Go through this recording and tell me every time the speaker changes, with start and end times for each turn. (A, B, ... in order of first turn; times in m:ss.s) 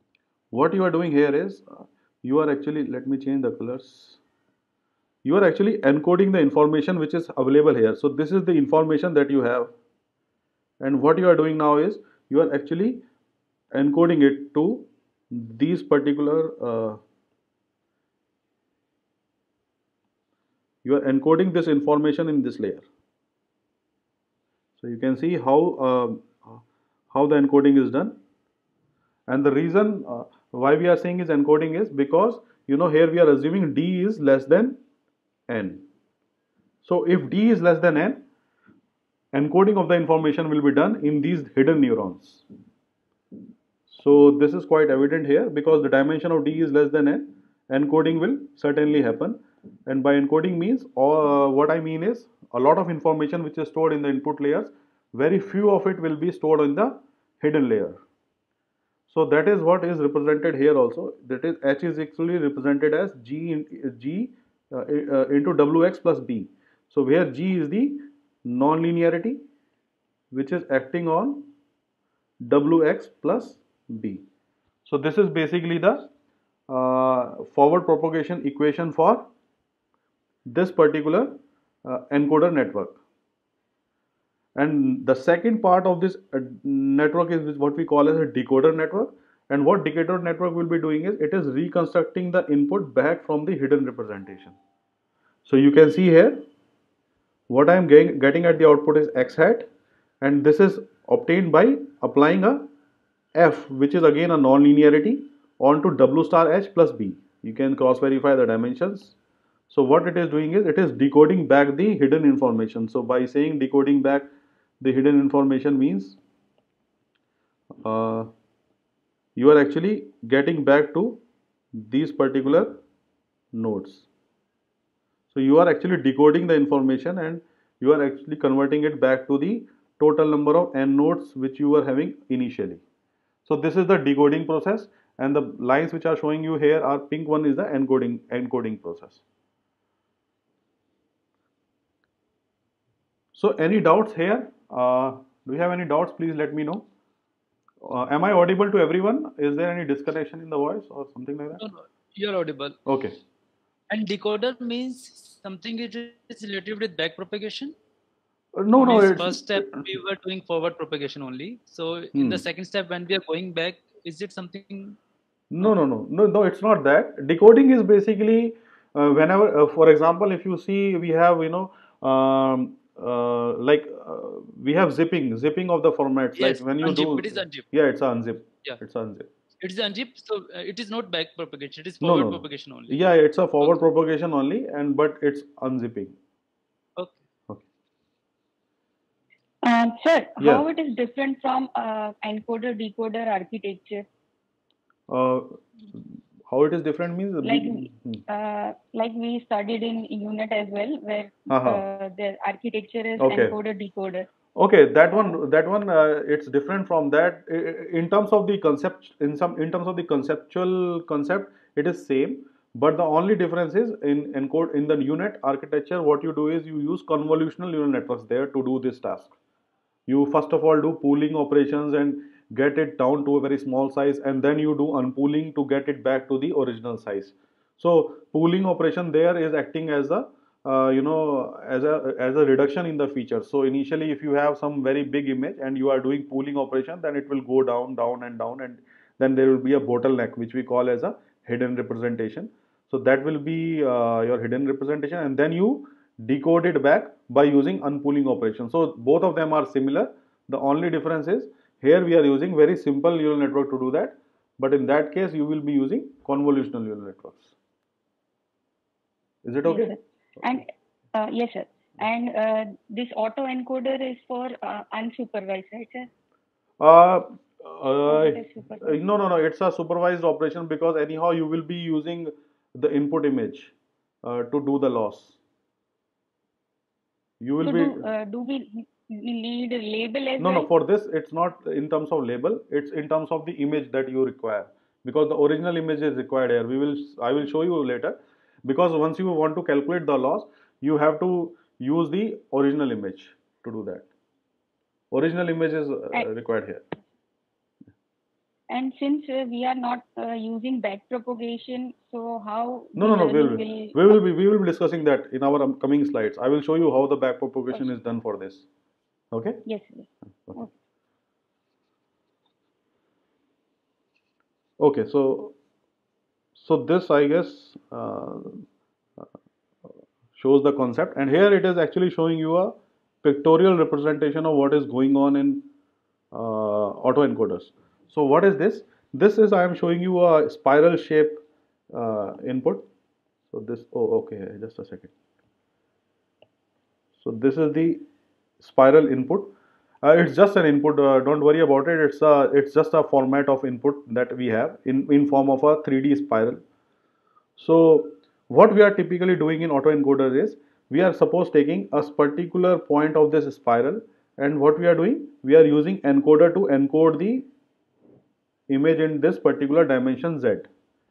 0:00.5-0:04.2 A
0:05.2-0:09.7 A
0:10.8-0:13.0 A
0:13.7-0:17.0 A
0:20.8-0:22.9 A
0:24.8-0:26.6 A
0:27.1-0:28.2 A
0:29.3-0:34.8 A
0:35.5-0:35.9 A
0:36.8-0:38.2 A
0:39.3-0:42.5 A
0:43.9-0:58.0 A
0:59.1-1:09.4 A
1:10.3-1:11.5 A
1:12.4-1:14.2 A
1:14.9-1:16.1 A
1:16.7-1:19.3 A
1:20.5-1:23.0 A
1:24.6-1:34.6 A
1:35.4-1:36.4 A
1:37.5-1:39.7 A
1:40.2-1:42.7 A
1:43.4-1:49.2 A
1:49.7-1:54.3 A
1:54.8-1:56.2 A
1:57.8-1:58.3 A
1:59.4-2:01.2 A
2:01.8-2:02.8 A
2:03.5-2:04.1 A
2:05.3-2:12.8 A
2:13.5-2:19.2 A
2:23.4-2:26.9 A
2:27.8-2:31.6 A
2:31.6-2:32.8 B
2:32.9-2:33.2 A
2:33.9-2:37.8 B
2:38.6-2:39.8 A
2:38.8-2:45.0 B
2:42.1-2:42.4 A
2:45.5-2:59.3 A
2:56.4-2:57.7 B
2:59.6-3:03.0 B
3:02.0-3:06.2 A
3:07.0-3:07.2 B
3:09.6-3:14.1 C
3:10.4-3:10.7 A
3:15.1-3:18.2 A
3:17.4-3:24.3 C
3:21.5-3:21.8 A
3:23.2-3:23.6 A
3:24.6-3:39.3 A
3:40.1-4:17.5 A
4:19.4-4:19.9 A
4:19.7-4:26.1 C
4:26.8-4:35.4 A
4:28.1-4:29.0 C
4:37.4-4:38.0 A
4:37.6-4:40.7 C
4:40.4-4:54.1 A
4:55.1-4:56.8 A
4:58.7-5:04.2 C
5:03.0-5:08.7 A
5:09.3-5:09.6 A
5:09.7-5:10.7 C
5:14.8-5:15.6 A
5:16.6-5:18.6 A
5:20.4-5:25.7 A
5:26.3-5:32.9 A
5:33.5-5:35.1 A
5:37.2-5:38.0 A
5:38.6-5:46.6 A
5:47.6-5:57.5 A
5:58.7-6:00.7 A